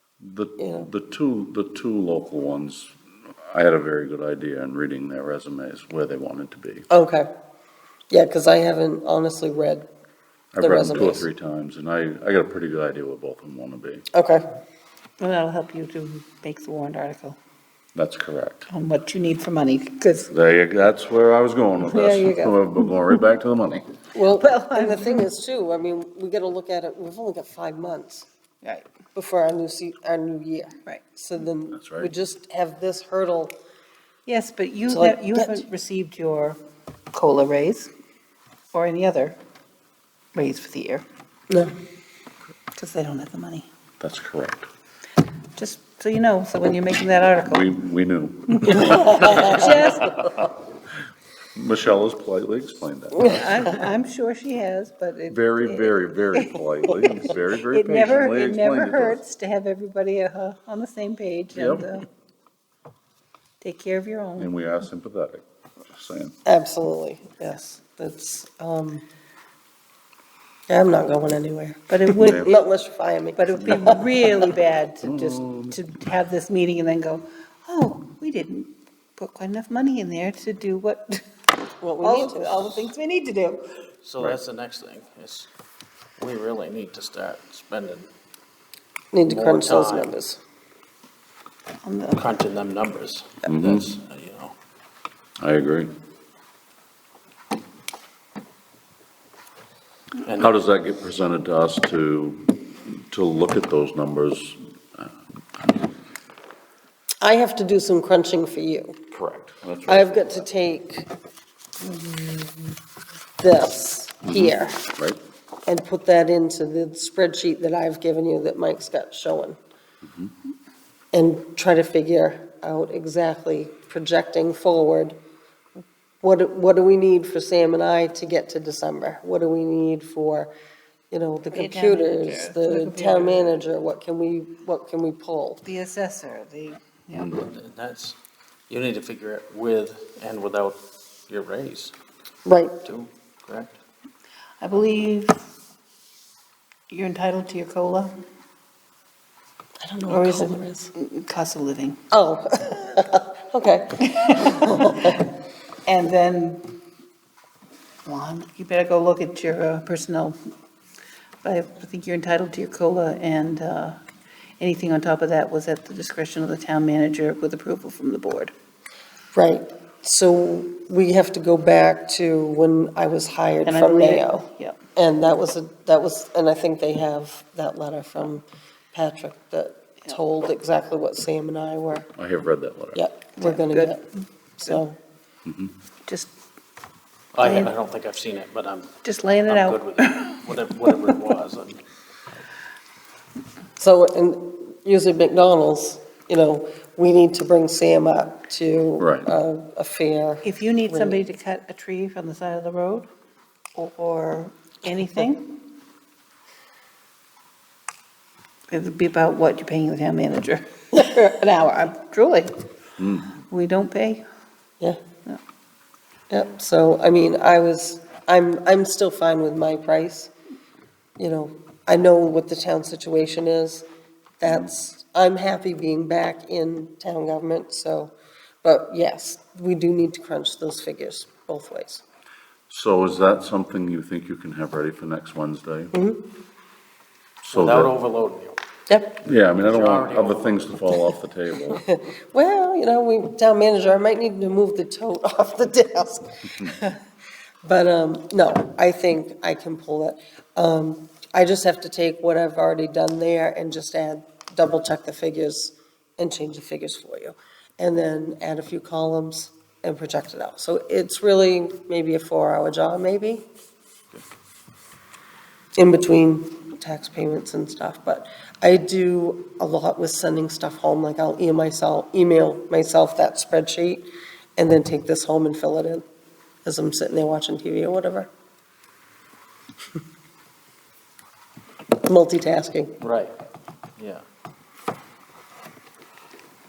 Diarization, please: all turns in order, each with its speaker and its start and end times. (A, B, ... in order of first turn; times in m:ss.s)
0:00.2-0:06.8 A
0:00.6-0:00.9 B
0:06.9-0:07.3 B
0:08.1-0:09.8 B
0:10.5-0:14.0 A
0:10.6-0:11.2 B
0:14.1-0:14.4 B
0:15.2-0:17.4 C
0:17.9-0:18.7 A
0:18.7-0:20.3 C
0:20.3-0:23.8 A
0:21.8-0:22.6 C
0:24.1-0:28.3 B
0:24.3-0:25.2 C
0:29.1-0:33.5 B
0:31.7-0:32.1 A
0:34.2-0:36.6 C
0:34.9-0:35.6 B
0:37.1-0:37.9 C
0:38.7-0:39.4 C
0:40.3-0:41.0 C
0:42.8-0:43.7 C
0:44.0-0:44.7 A
0:45.6-0:47.7 C
0:47.4-0:50.5 A
0:48.6-0:50.2 C
0:48.9-0:49.5 B
0:51.5-0:53.5 A
0:53.2-0:53.4 B
0:53.2-1:02.0 C
0:55.3-0:59.2 A
1:01.5-1:01.9 A
1:03.6-1:04.5 C
1:04.4-1:06.3 A
1:06.4-1:09.0 B
1:07.4-1:07.7 C
1:10.7-1:14.3 B
1:11.9-1:12.5 C
1:12.1-1:12.5 A
1:13.4-1:21.2 C
1:13.6-1:13.9 A
1:15.0-1:15.8 A
1:21.8-1:22.9 B
1:22.0-1:23.6 C
1:24.0-1:25.5 D
1:26.2-1:28.0 D
1:29.1-1:30.4 B
1:29.3-1:30.1 D
1:31.8-1:32.2 C
1:32.2-1:34.5 D
1:33.4-1:33.9 A
1:35.4-1:35.9 A
1:40.3-1:45.8 A
1:47.2-1:49.0 B
1:49.1-1:50.4 A
1:49.8-1:51.1 B
1:51.8-1:52.7 B
1:53.4-1:54.8 B
1:54.2-1:55.2 A
1:55.6-1:59.6 B
2:00.0-2:00.3 A
2:01.1-2:05.2 B
2:06.2-2:10.5 B
2:11.1-2:15.6 B
2:11.5-2:13.5 C
2:15.6-2:17.5 C
2:17.1-2:17.5 A
2:17.5-2:18.1 D
2:18.7-2:20.7 D
2:21.3-2:21.9 D
2:22.4-2:22.7 B
2:22.8-2:23.7 D
2:24.6-2:25.4 C
2:26.9-2:28.2 C
2:29.8-2:30.9 B
2:30.1-2:32.0 C
2:32.1-2:35.3 B
2:34.0-2:35.2 C
2:35.9-2:36.7 C
2:38.0-2:40.4 C
2:41.4-2:44.0 C
2:44.6-2:48.5 C
2:49.3-3:02.1 B
2:53.6-2:54.8 C
3:02.2-3:03.0 A
3:02.9-3:04.0 B
3:03.4-3:04.0 C
3:04.6-3:05.0 B
3:05.4-3:05.7 A
3:06.1-3:06.3 C
3:07.4-3:08.9 D
3:09.0-3:10.4 C
3:09.5-3:11.7 D
3:13.8-3:21.2 B
3:19.0-3:19.3 A
3:20.4-3:23.1 C
3:23.7-3:25.5 C
3:28.7-3:32.5 C
3:33.0-3:33.3 A
3:33.5-3:34.2 C
3:36.3-3:40.3 B
3:41.2-3:43.8 B
3:44.4-3:52.0 B
3:52.7-3:55.9 A
3:55.9-3:56.2 B
3:57.4-3:57.9 A
3:57.5-3:58.5 D
3:58.9-3:59.2 B
3:59.2-4:01.8 A
3:59.6-4:00.8 D
4:01.8-4:07.0 B
4:07.6-4:23.4 B
4:25.8-4:36.0 B
4:36.6-4:38.3 B
4:42.0-4:43.0 B
4:43.0-4:43.3 D